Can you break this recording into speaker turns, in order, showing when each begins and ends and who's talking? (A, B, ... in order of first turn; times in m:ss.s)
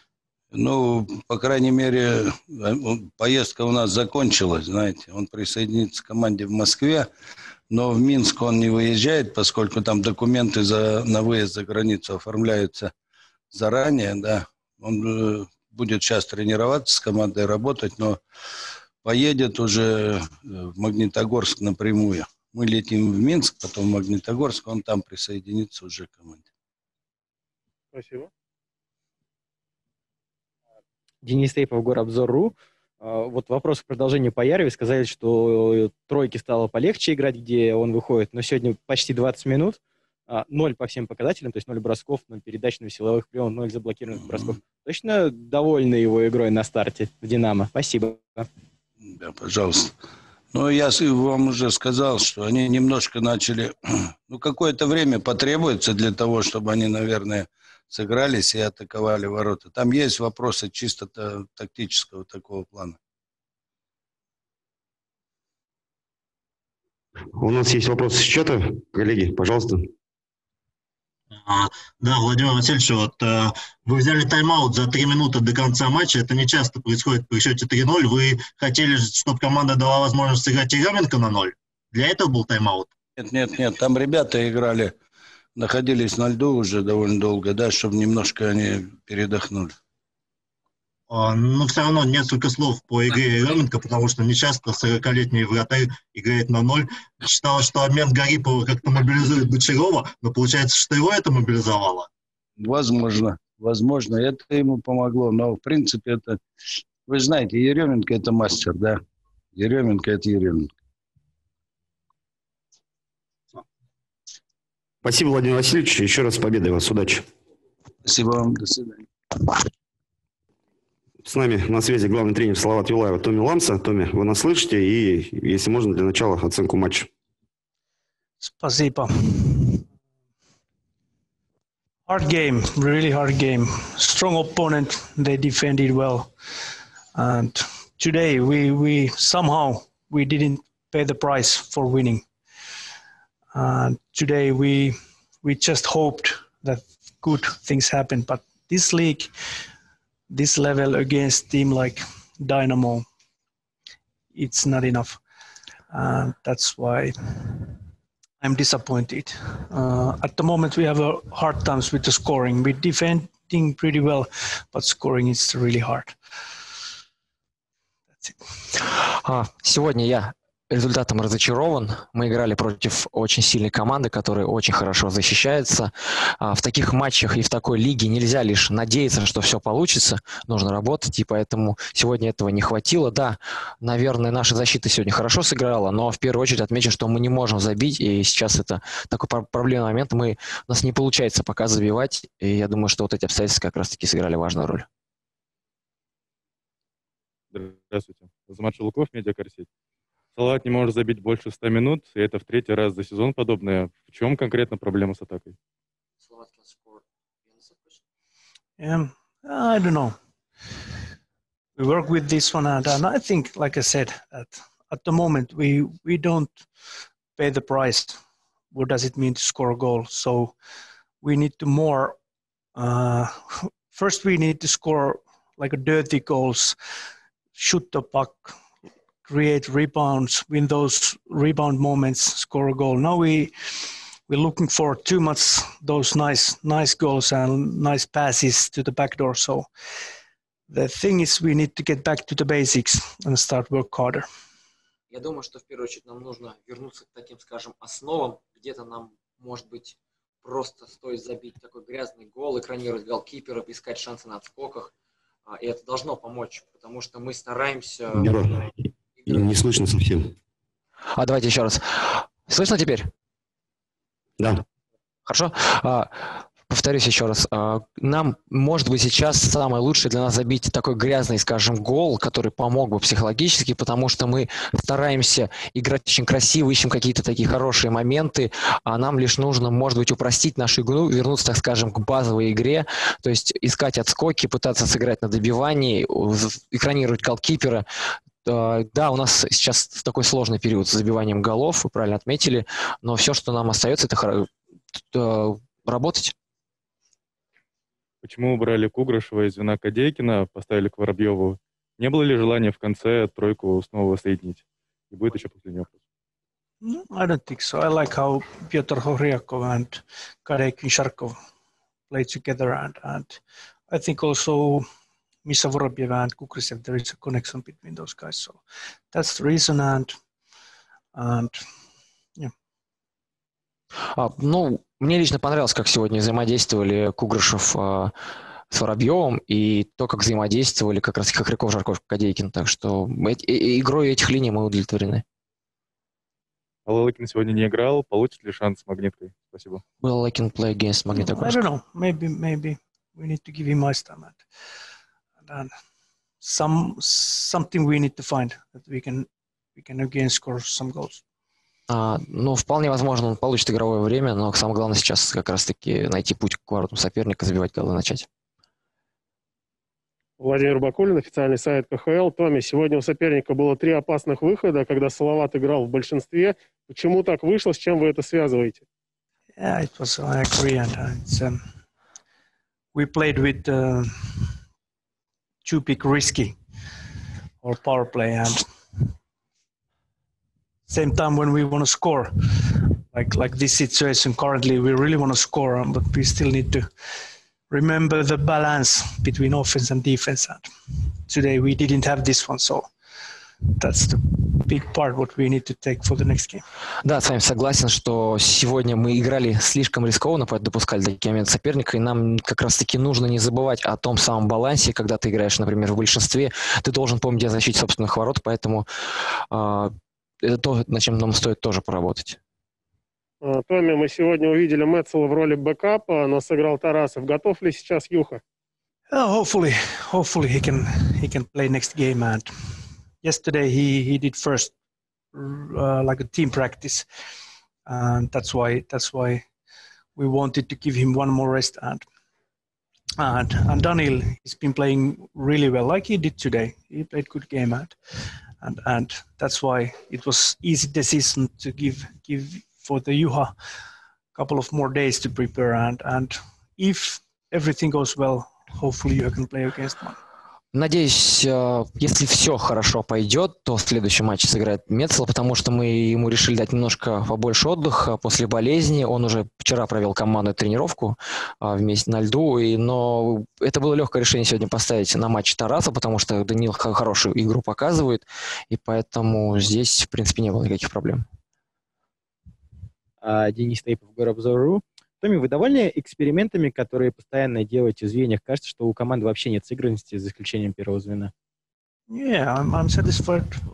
0:00.5-0:07.1 A
0:07.7-0:12.9 A
0:13.5-0:18.2 A
0:19.0-0:26.5 A
0:27.9-0:28.3 B
0:31.2-0:48.5 C
0:49.0-0:49.9 A
0:50.5-1:03.0 A
1:07.3-1:09.9 D
1:11.3-1:22.9 E
1:23.2-1:24.9 A
1:25.6-1:29.8 A
1:31.1-1:42.1 E
1:42.6-1:46.4 A
1:47.0-1:49.0 A
1:49.5-1:50.7 A
1:55.0-1:57.3 D
1:58.0-1:59.1 A
2:01.2-2:07.1 D
2:08.4-2:09.9 F
2:12.0-2:16.3 F
2:17.1-2:22.3 F
2:23.5-2:29.3 F
2:30.3-2:33.0 F
2:34.3-2:35.2 F
2:35.9-2:37.8 F
2:38.4-2:46.2 F
2:48.8-3:14.8 G
3:17.5-3:19.7 H
3:20.3-3:25.6 H
3:26.2-3:28.0 G
3:28.8-3:30.2 F
3:31.8-3:36.7 F
3:37.4-3:38.2 F
3:38.7-3:40.5 F
3:41.2-3:42.2 F
3:42.7-3:46.8 F
3:47.5-3:48.6 F
3:49.2-3:53.5 F
3:54.3-3:59.7 F
4:00.7-4:04.3 F
4:05.1-4:14.9 G
4:15.5-4:18.3 G
4:18.1-4:20.3 D
4:21.2-4:23.1 G
4:24.4-4:24.6 D
4:25.2-4:47.8 G
4:48.4-4:56.3 G
4:58.2-5:05.9 H
5:06.8-5:11.4 F
5:12.1-5:14.9 F
5:15.4-5:20.2 F
5:21.1-5:21.6 F
5:24.1-5:28.1 G
5:28.7-5:35.2 G
5:36.8-5:39.8 H
5:40.0-5:41.6 G
5:41.2-5:44.4 F
5:45.4-5:45.7 F
5:46.4-5:51.2 F
5:51.9-5:58.3 G
6:00.4-6:08.8 B
6:09.6-6:11.6 F
6:12.9-6:14.6 F
6:15.6-6:16.6 F
6:17.6-6:19.0 F
6:20.9-6:26.9 F
6:27.7-6:30.7 F
6:31.3-6:32.9 F
6:33.8-6:36.6 F
6:37.0-6:48.8 G
6:49.5-6:52.4 G
6:53.4-6:58.4 B
6:59.1-7:02.5 F
7:03.2-7:04.7 F
7:05.3-7:07.1 F
7:07.8-7:09.4 F
7:10.2-7:12.0 F
7:13.2-7:18.0 F
7:18.6-7:23.5 F
7:24.3-7:30.2 F
7:30.7-7:51.2 G
7:53.2-8:01.3 C
8:02.1-8:03.6 F